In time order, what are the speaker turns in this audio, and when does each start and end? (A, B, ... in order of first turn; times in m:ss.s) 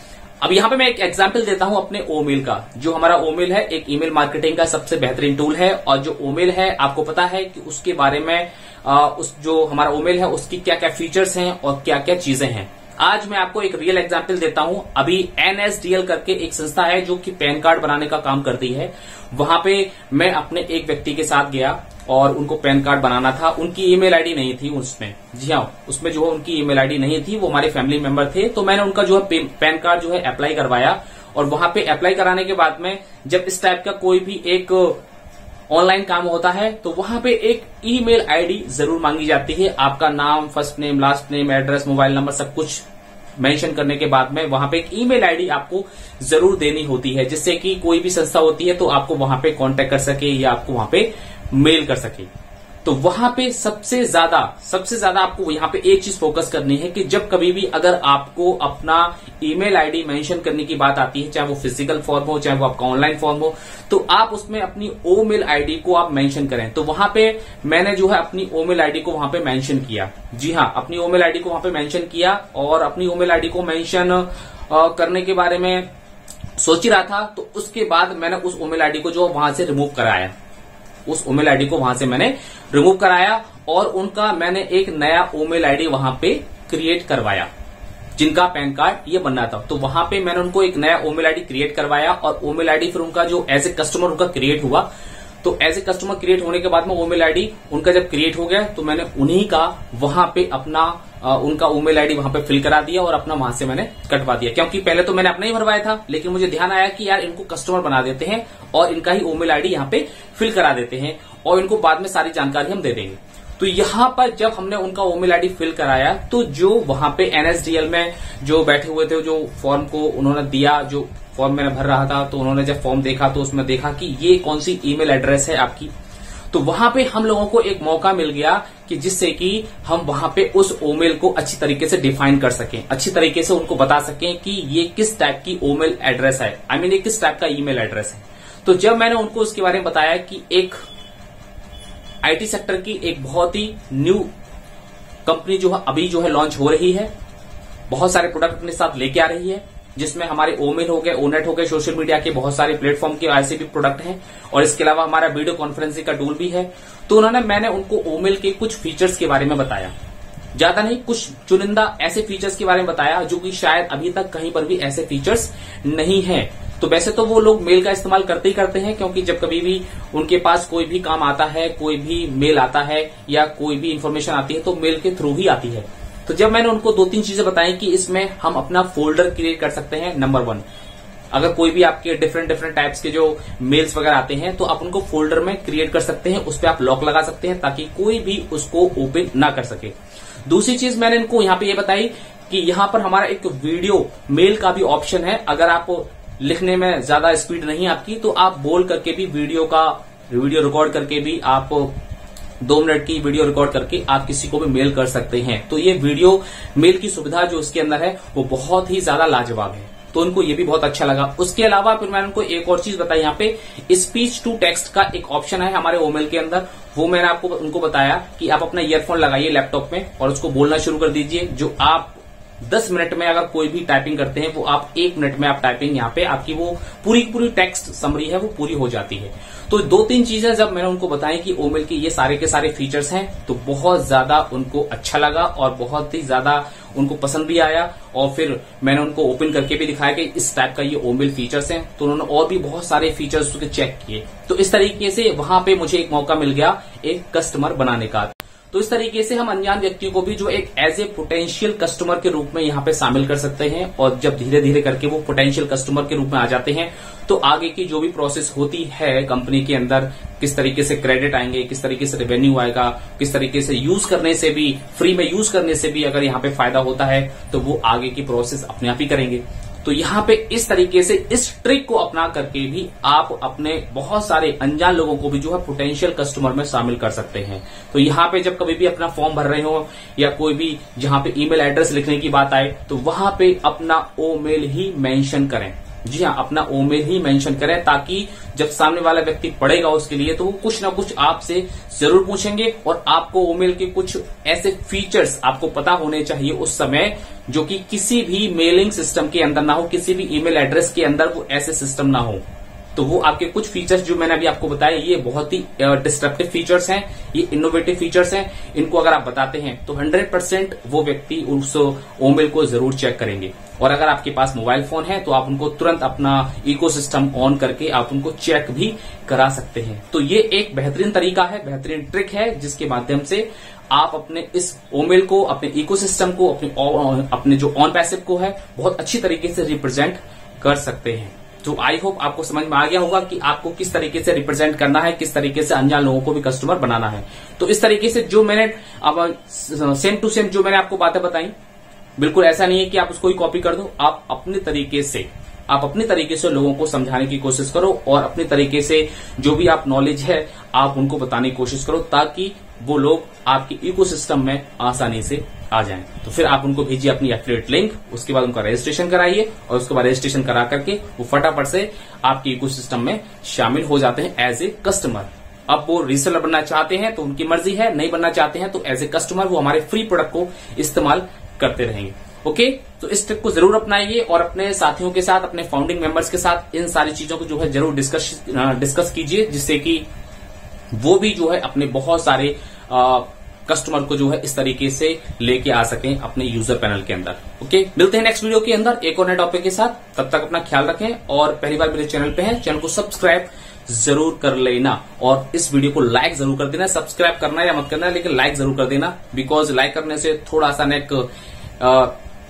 0:00.4-0:35.0 A
0:35.7-0:42.8 A
0:43.4-0:52.3 A
0:52.8-1:15.9 A
1:16.6-1:20.3 A
1:21.0-1:27.5 A
1:28.2-1:34.9 A
1:35.4-2:05.9 A
2:06.5-2:20.8 A
2:22.2-2:24.3 A
2:25.2-2:27.1 A
2:27.9-2:39.9 A
2:40.5-3:00.6 A
3:01.3-3:09.9 A
3:10.4-3:21.9 A
3:22.6-5:02.4 A
5:02.9-5:41.5 A
5:42.2-6:20.0 A
6:20.9-6:41.3 A
6:41.8-6:42.1 A